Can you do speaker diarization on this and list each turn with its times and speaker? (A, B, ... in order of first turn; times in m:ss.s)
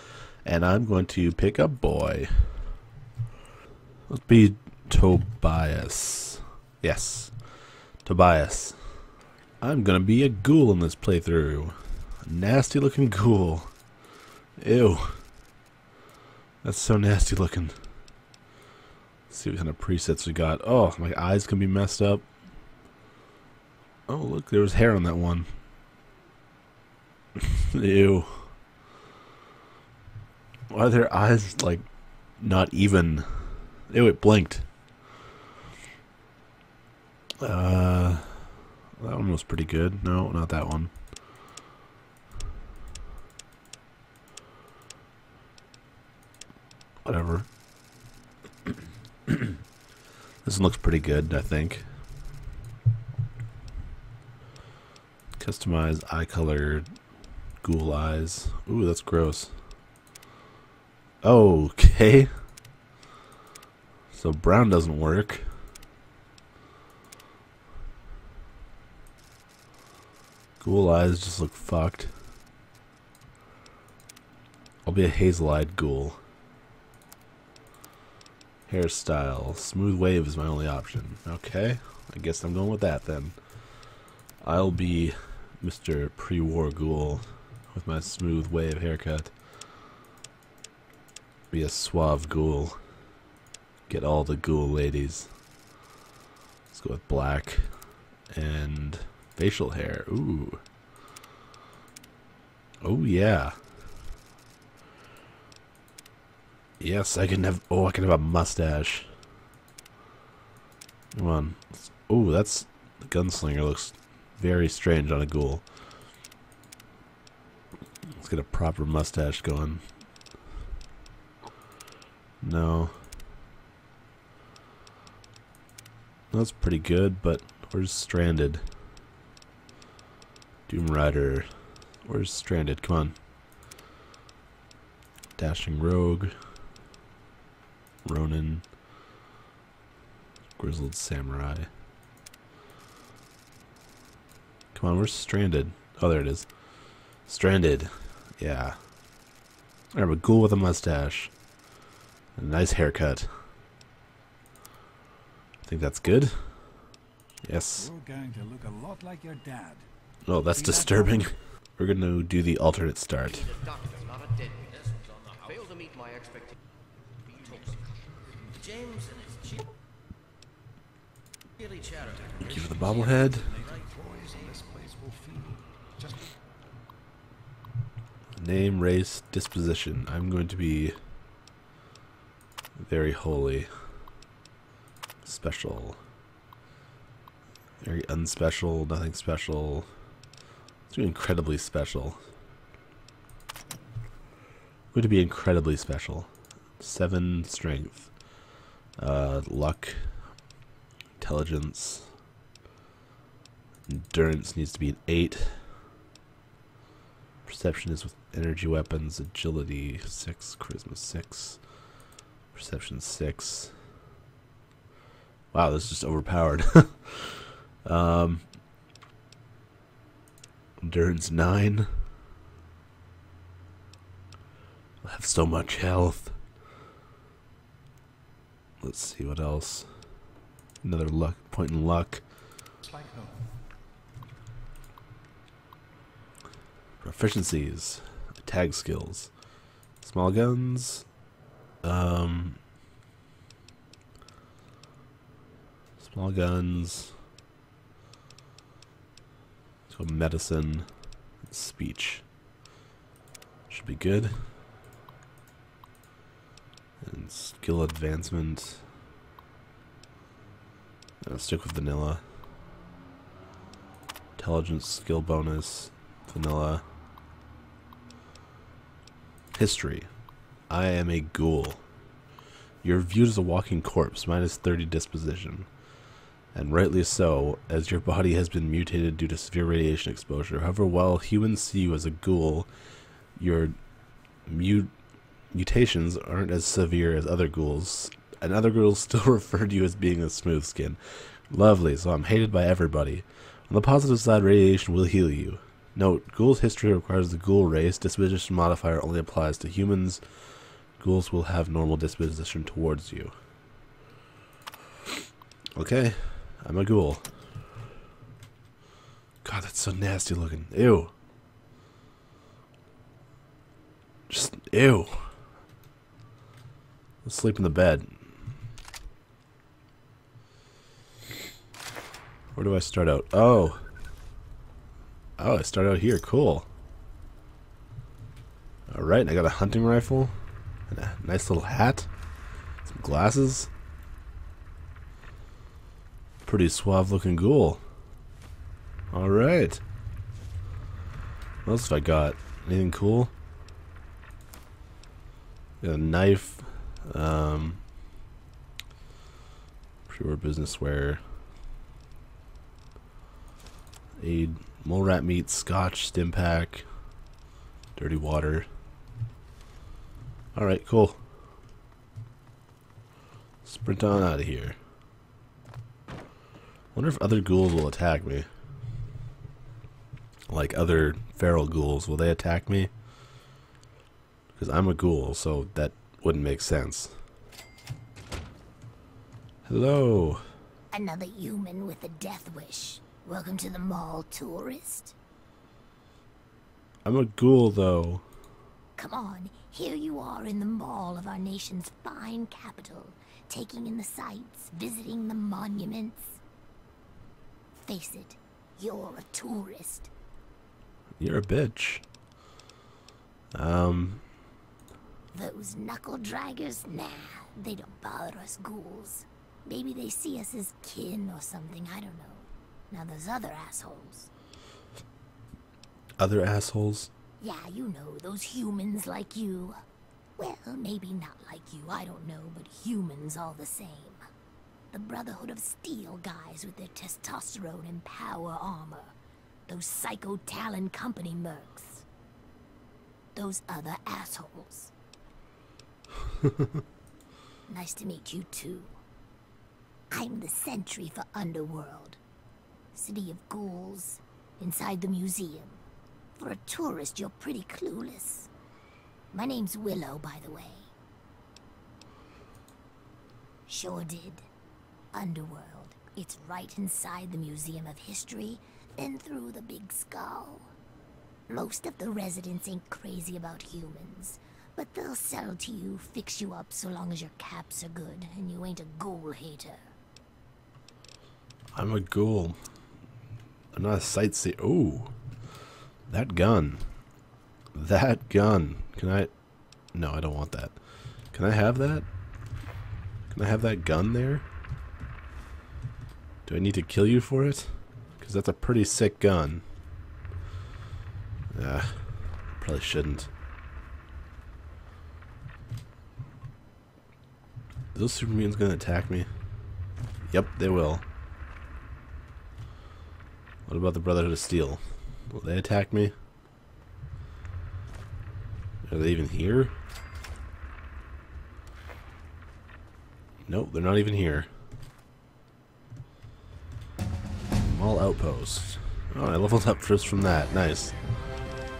0:00.4-0:02.3 A
0:04.1-0:07.3 A
0:08.0-0:09.0 A
0:09.6-0:13.7 A
0:14.6-0:15.2 A
0:16.6-0:17.7 A
0:19.3-0:22.2 A
0:24.1-0:25.5 A
0:27.4-0:28.5 A
0:30.7-0:34.7 A
0:37.4-0:40.9 A
0:47.0-0:47.5 A
0:50.4-0:51.8 A
0:55.4-0:56.8 A
0:57.6-0:59.5 A
1:01.2-1:02.3 A
1:04.1-1:05.5 A
1:10.6-1:12.1 A
1:14.8-1:16.2 A
1:18.7-1:23.4 A
1:24.4-1:29.3 A
1:31.5-1:32.8 A
1:33.9-1:35.3 A
1:36.7-1:37.7 A
1:38.3-1:40.6 A
1:42.8-1:43.6 A
1:46.8-1:49.1 A
1:51.1-1:55.6 A
1:58.2-1:59.8 A
2:02.4-2:03.0 A
2:06.3-2:08.6 A
2:10.7-2:11.5 A
2:12.0-2:13.2 A
2:15.4-2:16.3 A
2:18.0-2:18.7 A
2:20.6-2:21.7 A
2:24.7-2:26.5 A
2:27.2-2:28.8 A
2:29.9-2:31.3 A
2:32.4-2:33.3 A
2:35.6-2:36.5 A
2:37.4-2:37.9 A
2:37.7-2:39.8 B
2:40.2-2:43.6 A
2:40.5-2:41.3 B
2:43.3-2:46.5 C
2:47.3-2:47.8 C
2:48.6-2:49.6 C
2:51.6-2:52.4 C
2:52.2-2:52.9 B
2:52.4-2:53.6 A
2:53.0-2:53.8 C
2:53.4-2:56.3 B
2:58.4-3:00.9 A
3:02.8-3:03.7 A
3:05.2-3:06.0 A
3:07.8-3:09.9 A
3:10.9-3:12.2 A
3:14.9-3:18.1 A
3:19.0-3:20.1 A
3:21.2-3:22.1 A
3:23.9-3:25.6 A
3:27.4-3:31.6 A
3:32.5-3:33.7 A
3:35.5-3:38.6 A
3:40.8-3:41.9 A
3:45.0-3:46.4 A
3:48.8-3:49.9 A
3:50.8-3:52.2 A
3:52.9-3:53.4 B
3:57.0-3:59.3 A
4:00.0-4:01.1 A
4:01.8-4:02.6 A
4:06.0-4:07.1 A
4:09.9-4:10.9 A
4:11.4-4:12.2 A
4:13.7-4:14.3 A
4:17.0-4:18.8 A
4:21.2-4:22.2 A
4:24.4-4:26.8 A
4:29.5-4:30.1 A
4:30.7-4:31.8 A
4:32.8-4:35.7 A
4:36.5-4:42.7 A
4:43.4-4:43.7 A
4:44.5-4:44.9 A
4:45.5-5:00.2 A
5:01.0-5:03.3 A
5:05.8-5:07.3 A
5:09.4-5:11.1 A
5:14.3-5:15.3 A
5:17.2-5:18.1 A
5:22.5-5:23.8 A
5:25.4-5:26.7 A
5:28.9-5:30.3 A
5:30.9-5:32.1 A
5:32.8-5:33.7 A
5:36.4-5:37.8 A
5:39.1-5:39.8 A
5:41.6-5:43.3 A
5:45.8-5:47.8 A
5:50.1-5:51.2 A
5:54.2-5:56.8 A
5:58.0-5:58.7 A
6:00.5-6:01.2 A
6:03.6-6:04.8 A
6:06.9-6:08.5 A
6:10.5-6:12.9 A
6:14.5-6:17.2 A
6:19.6-6:20.4 A
6:20.9-6:25.1 D
6:27.0-6:28.2 A
6:29.0-6:36.4 D
6:37.8-6:40.1 D
6:41.2-6:42.0 A
6:43.5-6:44.2 A
6:45.3-6:54.3 D
6:56.2-6:57.1 A
6:57.4-6:59.8 D
7:00.4-7:04.2 D
7:04.9-7:09.2 D
7:09.7-7:12.0 D
7:13.3-7:14.9 D
7:17.7-7:19.0 D
7:20.1-7:22.2 D
7:22.9-7:25.8 D
7:26.4-7:28.5 D
7:29.3-7:30.9 D
7:33.7-7:34.5 D
7:35.1-7:40.7 D
7:41.5-7:49.9 D
7:51.7-7:52.6 A
7:53.7-7:55.1 A
7:56.1-7:56.8 A
7:57.7-7:59.3 A
7:59.9-8:00.7 A
8:01.3-8:02.0 A
8:03.3-8:04.4 A
8:06.4-8:09.6 A
8:11.5-8:13.3 A
8:17.9-8:19.3 A
8:20.3-8:21.0 A
8:23.7-8:26.1 A
8:28.8-8:29.7 A
8:33.5-8:34.5 A
8:37.6-8:40.9 A